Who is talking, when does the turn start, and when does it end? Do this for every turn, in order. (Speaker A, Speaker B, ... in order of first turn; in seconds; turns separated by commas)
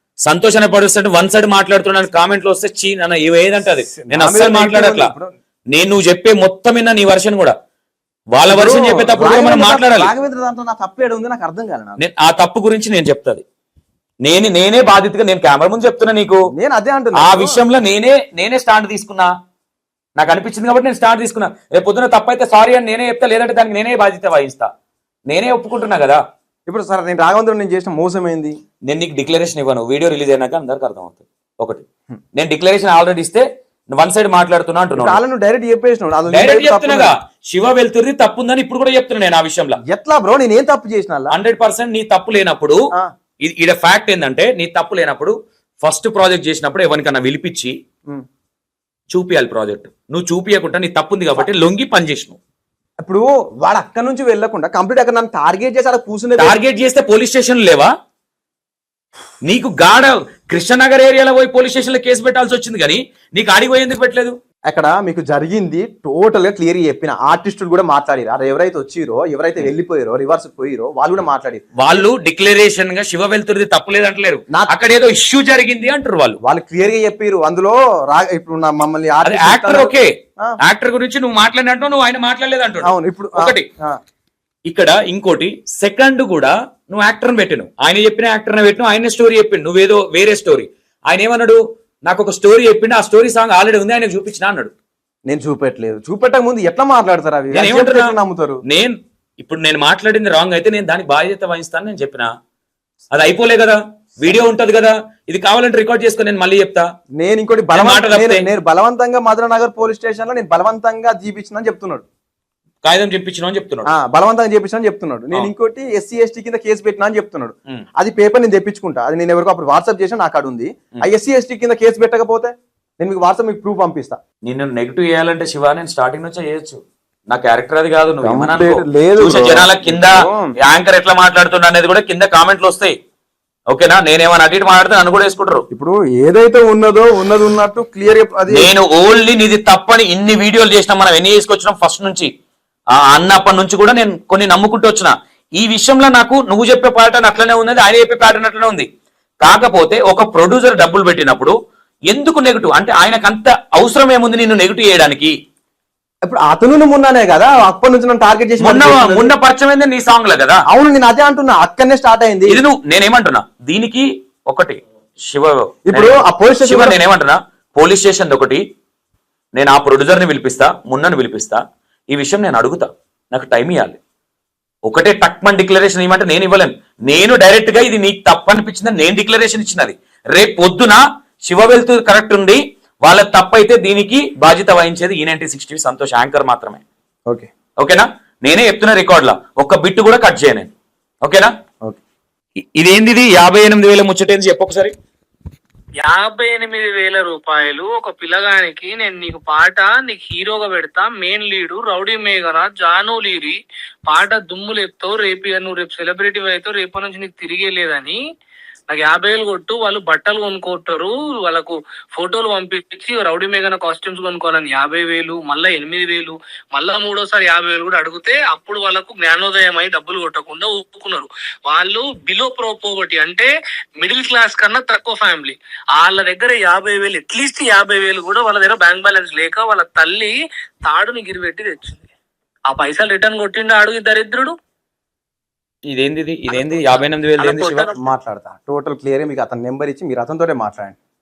Speaker A: 0.2-5.1, Speaker B: 3.9-5.3, Speaker A: 5.7-7.5, Speaker A: 8.3-10.1, Speaker B: 8.5-12.0, Speaker A: 12.0-13.4, Speaker A: 14.2-16.4, Speaker B: 16.5-17.6, Speaker A: 17.1-19.3, Speaker A: 20.2-24.7, Speaker A: 25.3-26.2, Speaker B: 26.7-28.6, Speaker A: 28.9-35.2, Speaker B: 35.0-37.1, Speaker A: 36.3-39.8, Speaker B: 39.8-41.4, Speaker A: 41.3-42.8, Speaker A: 43.4-47.7, Speaker A: 49.1-52.4, Speaker B: 53.0-56.6, Speaker A: 56.4-57.9, Speaker A: 59.4-64.3, Speaker B: 64.7-72.1, Speaker A: 71.8-76.4, Speaker B: 76.4-80.6, Speaker A: 79.2-83.7, Speaker B: 82.8-84.0, Speaker A: 84.7-94.7, Speaker B: 95.3-98.6, Speaker A: 97.5-98.1, Speaker A: 98.7-102.3, Speaker A: 103.1-106.8, Speaker B: 107.2-112.0, Speaker A: 107.7-108.5, Speaker A: 112.8-113.9, Speaker B: 113.8-124.2, Speaker A: 124.4-132.9, Speaker B: 128.2-130.5, Speaker A: 133.7-135.6, Speaker B: 135.7-138.7, Speaker A: 138.5-142.3, Speaker A: 143.0-148.9, Speaker A: 149.4-151.5, Speaker A: 152.1-155.3, Speaker B: 156.2-159.3, Speaker A: 158.6-160.6, Speaker B: 160.7-162.6, Speaker A: 162.5-168.6, Speaker B: 165.9-167.0, Speaker A: 169.6-174.0, Speaker A: 174.8-186.8, Speaker A: 187.8-190.7, Speaker A: 191.2-191.5, Speaker A: 192.8-194.9, Speaker C: 196.0-208.2, Speaker C: 208.9-232.1, Speaker C: 232.7-234.5, Speaker A: 235.9-237.9, Speaker C: 236.5-236.8, Speaker C: 237.4-237.9, Speaker B: 237.9-240.9